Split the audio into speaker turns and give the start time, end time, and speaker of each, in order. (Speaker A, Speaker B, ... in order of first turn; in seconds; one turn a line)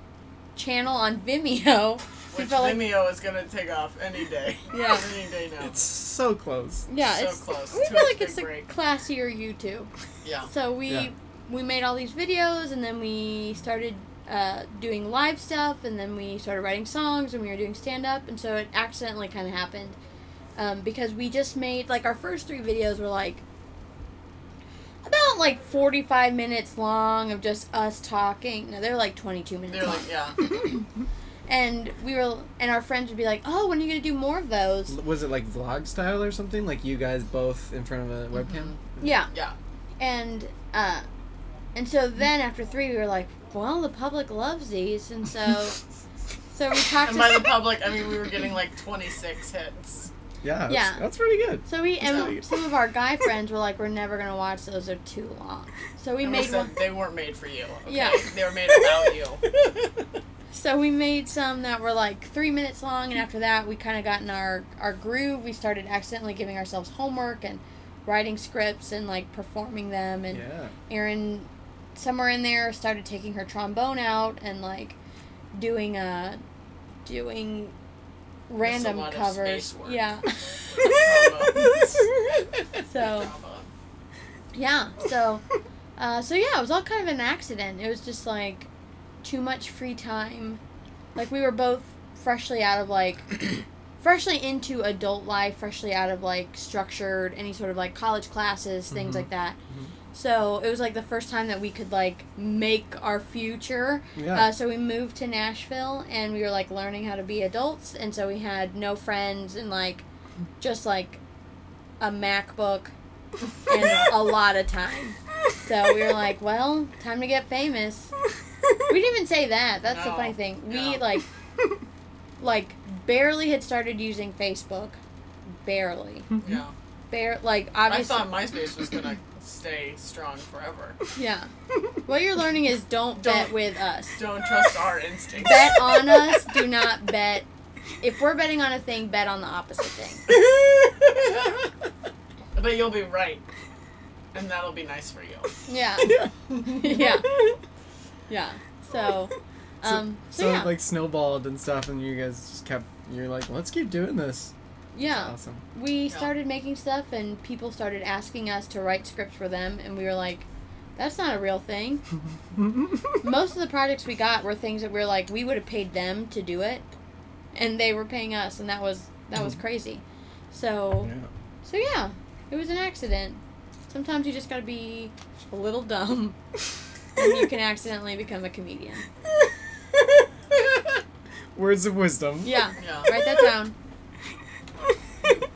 Speaker A: 0.6-2.9
Speaker B: 2.3-5.8
Speaker A: 4.7-5.0
Speaker C: 5.6-6.9
Speaker A: 6.9-9.9
Speaker B: 7.0-8.7
Speaker B: 10.2-10.5
Speaker A: 10.5-20.0
Speaker A: 20.6-23.4
Speaker A: 25.0-30.9
Speaker B: 29.7-30.4
Speaker A: 31.5-35.0
Speaker C: 34.9-39.1
Speaker B: 38.4-38.8
Speaker A: 39.0-39.3
Speaker A: 40.0-41.0
Speaker A: 41.7-45.8
Speaker A: 46.5-47.5
Speaker B: 47.0-50.1
Speaker C: 50.4-52.4
Speaker A: 50.7-51.0
Speaker A: 51.6-56.7
Speaker B: 56.2-59.4
Speaker A: 57.9-58.2
Speaker A: 60.5-75.0
Speaker C: 70.3-70.7
Speaker A: 75.5-76.4
Speaker A: 77.0-77.7
Speaker A: 78.5-81.1
Speaker B: 78.6-80.1
Speaker B: 80.8-82.0
Speaker A: 82.8-83.3
Speaker B: 82.9-83.7
Speaker A: 84.5-85.4
Speaker A: 86.0-88.7
Speaker A: 89.2-90.6
Speaker A: 91.2-99.6
Speaker C: 98.9-99.9
Speaker A: 100.1-110.0
Speaker C: 104.2-104.5
Speaker A: 110.6-111.2
Speaker A: 112.0-112.9
Speaker A: 113.7-118.1
Speaker B: 113.8-114.1
Speaker A: 118.9-121.2
Speaker B: 119.8-121.0
Speaker A: 122.4-125.0
Speaker A: 125.6-126.3
Speaker B: 126.4-126.7
Speaker A: 127.1-128.3
Speaker B: 127.9-131.0
Speaker A: 131.2-131.5
Speaker A: 132.0-134.2
Speaker B: 133.2-133.5
Speaker B: 134.2-135.8
Speaker A: 135.4-137.4
Speaker A: 138.0-140.2
Speaker B: 142.5-143.4
Speaker B: 144.3-145.5
Speaker A: 145.7-147.3
Speaker A: 148.3-150.7
Speaker C: 149.8-154.5
Speaker A: 154.9-162.0
Speaker C: 155.0-155.6
Speaker A: 163.2-166.9
Speaker A: 167.5-171.1
Speaker C: 171.0-171.3
Speaker A: 171.6-176.4
Speaker A: 177.2-179.0
Speaker C: 181.5-182.6
Speaker A: 182.4-183.7
Speaker B: 182.8-183.1